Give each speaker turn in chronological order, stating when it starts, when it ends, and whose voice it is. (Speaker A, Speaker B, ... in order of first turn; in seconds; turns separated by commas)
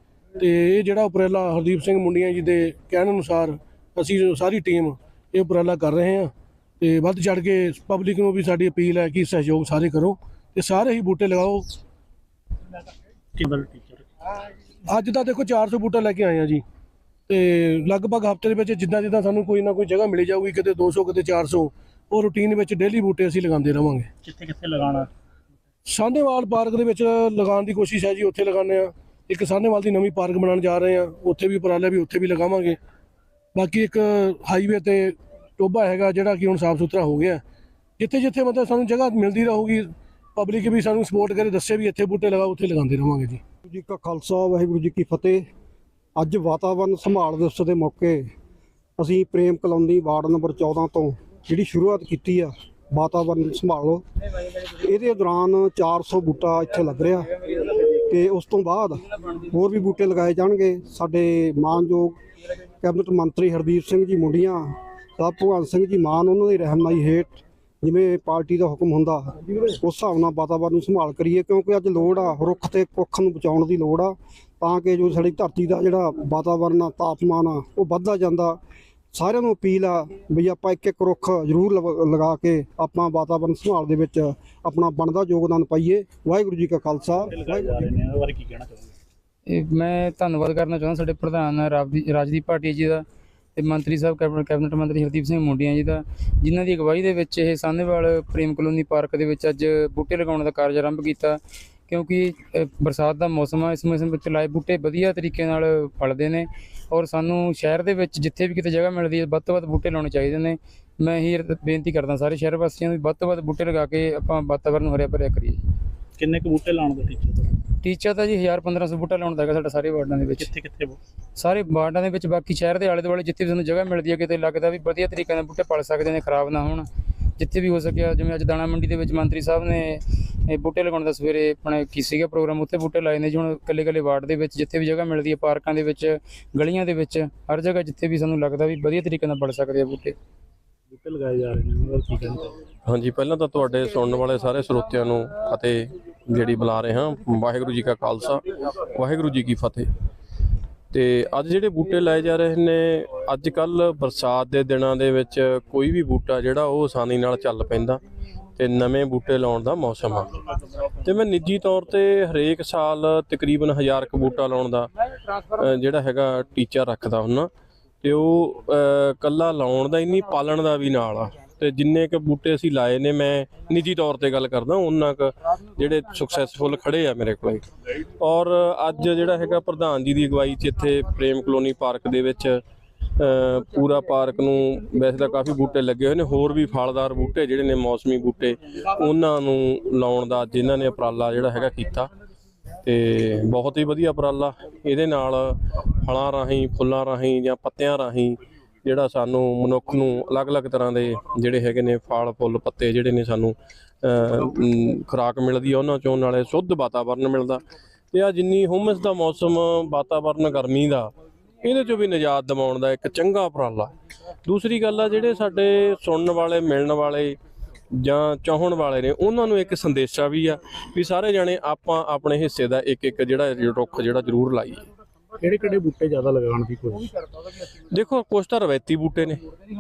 Speaker A: 0.4-11.7, Speaker B: 13.4-14.1, Speaker A: 14.9-16.6, Speaker A: 17.3-24.1, Speaker B: 24.2-25.1, Speaker A: 25.9-32.8, Speaker A: 33.6-37.4, Speaker A: 38.0-43.4, Speaker C: 43.7-45.5, Speaker C: 46.2-48.3, Speaker C: 49.0-54.0, Speaker C: 54.8-62.2, Speaker C: 62.8-78.6, Speaker C: 79.1-87.8, Speaker B: 87.3-88.9, Speaker D: 89.5-93.0, Speaker D: 93.6-115.6, Speaker B: 116.2-117.6, Speaker D: 117.8-120.6, Speaker B: 120.4-121.0, Speaker D: 121.4-126.9, Speaker D: 127.4-140.2, Speaker B: 140.9-142.6, Speaker E: 142.9-149.9, Speaker E: 150.9-158.0, Speaker E: 158.6-160.3, Speaker E: 161.0-164.9, Speaker E: 165.4-167.5, Speaker E: 168.0-177.6, Speaker E: 178.2-182.6, Speaker E: 183.2-192.1, Speaker E: 192.8-213.9, Speaker E: 214.4-217.4, Speaker E: 218.0-224.8, Speaker B: 225.4-227.1, Speaker E: 227.9-229.4